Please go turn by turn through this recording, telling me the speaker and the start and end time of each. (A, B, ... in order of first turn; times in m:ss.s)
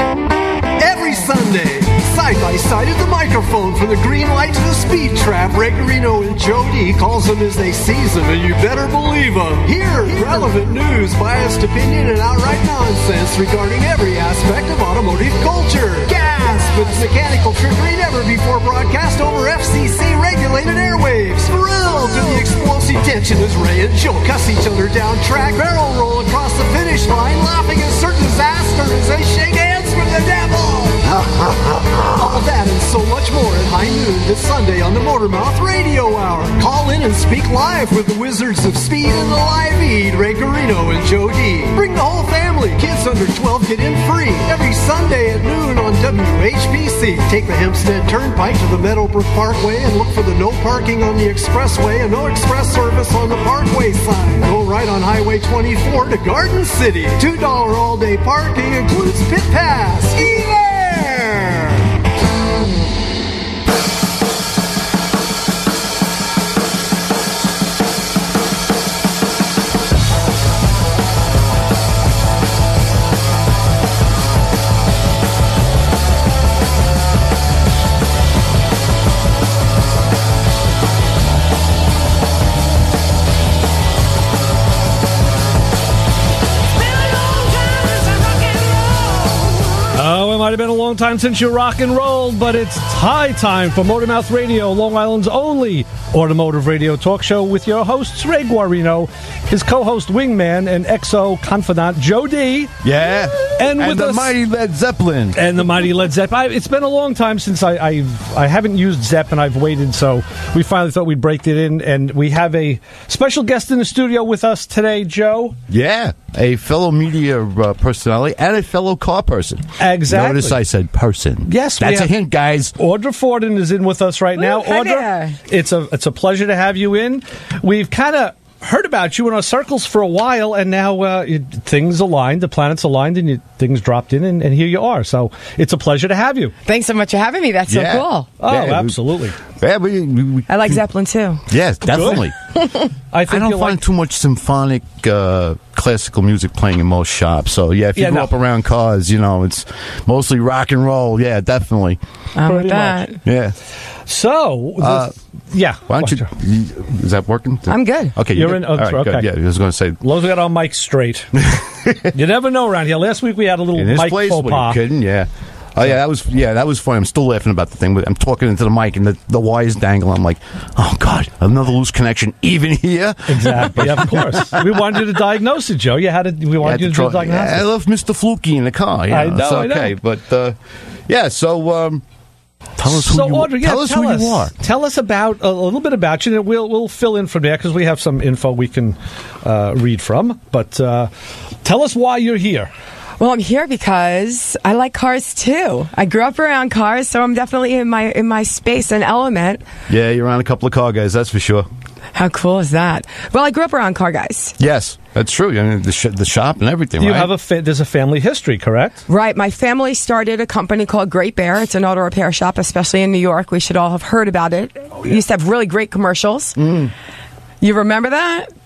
0:00.8-1:01.8 A
1:29.9-1:42.7 B
1:42.8-1:45.4 C
1:43.5-1:44.4 B
1:45.3-1:55.6 B
1:55.7-2:02.8 C
1:59.8-2:00.6 B
2:01.4-2:16.5 B
2:04.4-2:05.4 D
2:16.6-2:18.4 D
2:17.7-2:20.8 C
2:18.4-2:19.4 B
2:20.5-2:21.5 D
2:21.5-2:22.4 C
2:21.8-2:22.3 B
2:22.6-2:22.9 D
2:23.1-2:23.9 B
2:23.3-2:32.0 C
2:27.9-2:28.4 B
2:32.3-2:33.1 D
2:32.4-2:33.2 B
2:33.2-2:33.5 C
2:34.0-2:36.3 B
2:34.8-2:35.1 C
2:35.9-2:40.0 C
2:37.7-2:38.2 D
2:38.2-2:41.4 B
2:41.4-2:42.1 C
2:42.1-2:44.8 B
2:43.7-2:54.9 C
2:53.3-2:57.7 B
2:56.6-3:00.6 C
2:59.1-3:00.0 B
3:01.1-3:02.0 C
3:02.8-3:04.5 C
3:02.8-3:11.1 B
3:11.6-3:12.7 B
3:13.2-3:19.6 D
3:19.9-3:21.6 C
3:22.1-3:24.6 D
3:24.6-3:27.3 C
3:27.0-3:29.0 B
3:29.1-3:36.6 D
3:36.6-3:36.9 C
3:37.6-3:38.5 D